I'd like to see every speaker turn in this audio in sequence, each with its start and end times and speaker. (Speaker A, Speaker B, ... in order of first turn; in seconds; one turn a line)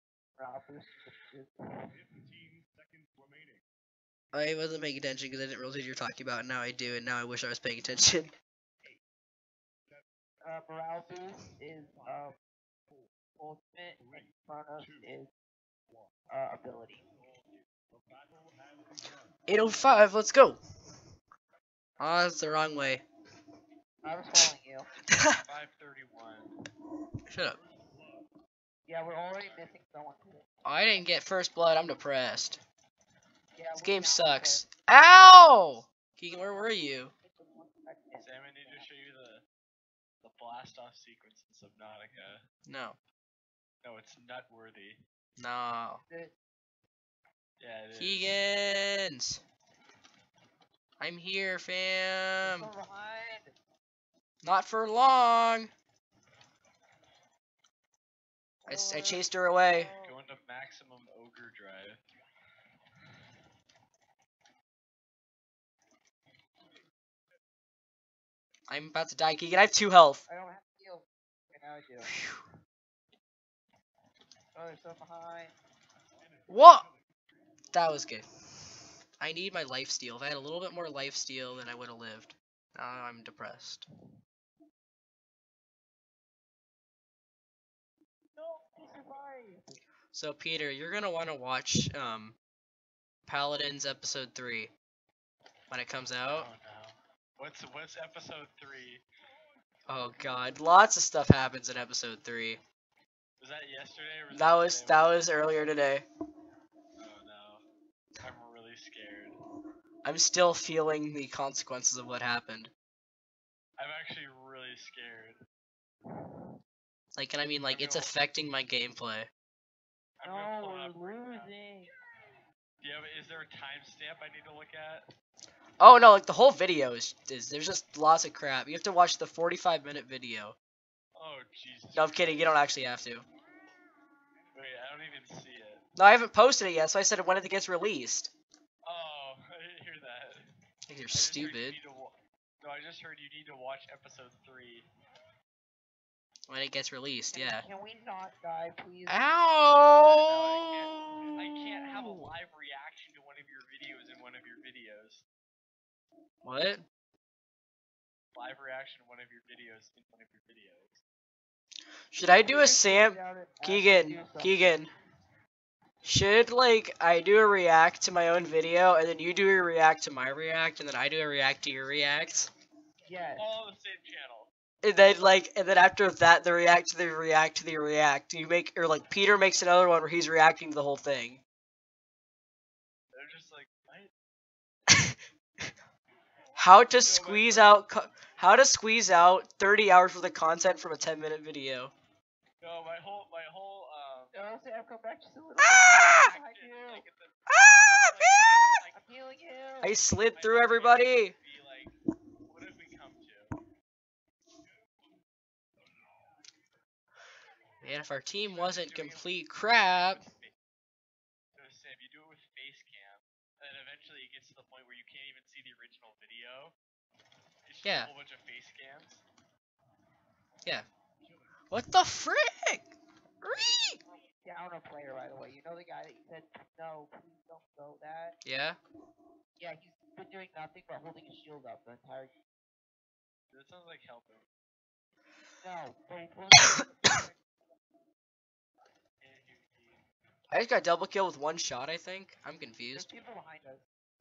Speaker A: 0.4-1.9
Speaker B: 4.3-8.3
Speaker A: 10.4-12.4
Speaker A: 13.4-15.3
Speaker A: 16.3-17.0
Speaker B: 19.5-20.6
Speaker B: 22.0-23.0
Speaker A: 24.0-24.9
Speaker B: 25.1-25.4
Speaker C: 25.3-26.5
Speaker B: 27.3-27.6
Speaker A: 28.9-30.4
Speaker B: 30.6-32.6
Speaker A: 33.5-34.6
Speaker B: 33.8-37.1
Speaker A: 36.3-38.9
Speaker C: 38.2-39.4
Speaker C: 40.2-42.4
Speaker B: 42.6-43.0
Speaker C: 43.8-45.0
Speaker B: 45.4-46.0
Speaker C: 47.6-48.4
Speaker B: 48.0-49.4
Speaker B: 51.0-52.7
Speaker A: 52.4-53.5
Speaker B: 54.4-55.7
Speaker A: 58.6-60.2
Speaker B: 58.7-59.9
Speaker C: 60.0-62.0
Speaker B: 68.7-70.2
Speaker A: 70.3-72.2
Speaker B: 72.1-72.4
Speaker A: 74.5-75.5
Speaker B: 76.5-76.9
Speaker B: 77.7-78.2
Speaker B: 79.2-83.8
Speaker A: 88.3-89.8
Speaker B: 90.1-92.4
Speaker B: 93.2-94.7
Speaker B: 95.7-96.5
Speaker C: 96.3-99.0
Speaker B: 99.9-102.6
Speaker C: 103.4-105.8
Speaker B: 104.3-106.0
Speaker C: 107.0-107.6
Speaker C: 108.2-109.4
Speaker B: 110.0-112.7
Speaker C: 113.8-115.4
Speaker B: 117.2-119.3
Speaker C: 117.7-118.1
Speaker C: 120.2-121.5
Speaker A: 120.2-121.9
Speaker C: 122.8-125.1
Speaker B: 125.8-130.6
Speaker C: 131.1-132.6
Speaker B: 131.9-133.2
Speaker C: 134.5-135.8
Speaker B: 135.9-138.3
Speaker C: 138.8-140.5
Speaker B: 140.9-141.8
Speaker C: 141.1-144.9
Speaker B: 146.5-147.7
Speaker A: 147.3-149.2
Speaker B: 149.1-152.3
Speaker C: 150.0-155.2
Speaker B: 156.4-156.8
Speaker C: 158.3-161.0
Speaker B: 162.1-164.9
Speaker A: 162.4-164.8
Speaker B: 166.0-172.5
Speaker A: 173.0-173.5
Speaker C: 173.4-174.5
Speaker B: 174.8-181.4
Speaker C: 183.1-184.1
Speaker B: 184.9-185.1
Speaker B: 186.6-191.9
Speaker C: 187.0-187.8
Speaker C: 192.6-194.3
Speaker A: 194.3-197.0
Speaker B: 195.6-196.3
Speaker C: 196.0-199.1
Speaker B: 197.5-198.8
Speaker A: 198.9-200.0
Speaker B: 199.8-201.3
Speaker C: 200.3-201.9
Speaker C: 202.5-203.5
Speaker B: 207.8-210.2
Speaker C: 208.4-209.3
Speaker C: 209.9-210.5
Speaker C: 211.5-216.7
Speaker C: 217.7-219.2
Speaker B: 217.8-218.1
Speaker B: 221.7-224.0
Speaker A: 224.1-228.3
Speaker B: 228.4-228.8
Speaker A: 229.6-232.3
Speaker C: 233.5-234.4
Speaker A: 235.6-237.4
Speaker C: 239.2-240.0
Speaker B: 240.5-243.1
Speaker A: 242.9-243.8